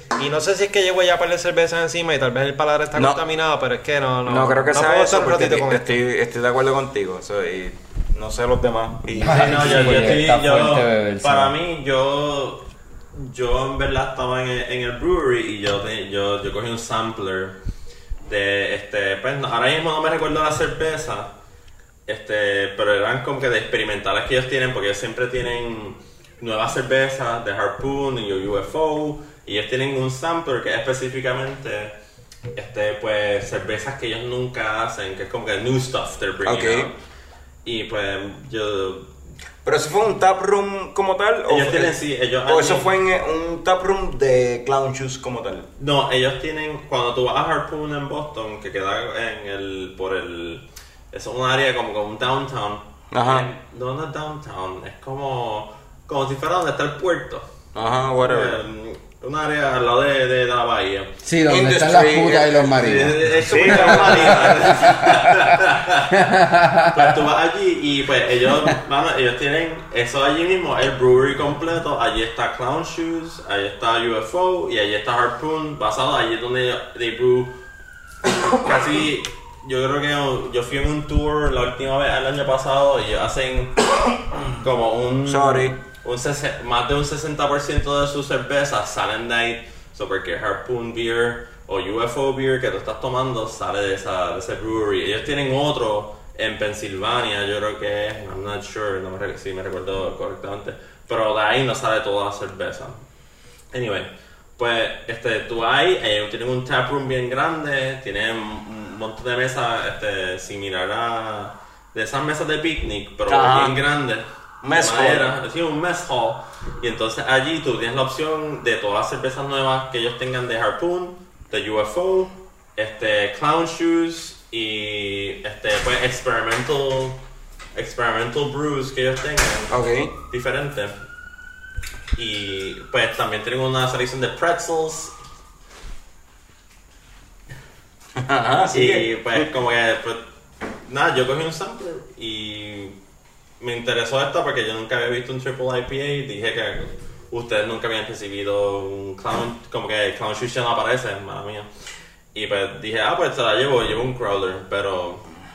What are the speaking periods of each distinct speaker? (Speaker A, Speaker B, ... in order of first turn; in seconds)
Speaker A: 0.2-5.9
Speaker B: 3.0-3.2, 4.3-10.3, 36.4-36.9, 39.6-41.9, 42.5-45.7, 53.1-53.5, 57.8-58.6, 61.5-64.7, 85.2-85.8, 113.3-113.8, 114.6-115.3, 129.7-130.1, 138.2-139.5
Speaker C: 9.2-17.6, 18.3-21.3, 22.1-31.9, 32.5-37.0, 37.6-39.1, 41.5-42.9, 45.8-57.5, 58.2-61.1, 62.8-66.2, 66.9-77.5, 78.5-83.8, 84.5-103.0, 103.7-127.2, 127.8-130.9, 132.2-135.1, 138.7-140.2, 140.9-143.0, 143.6-151.7, 152.3-155.2
Speaker D: 9.2-11.6, 61.2-65.6, 66.1-67.2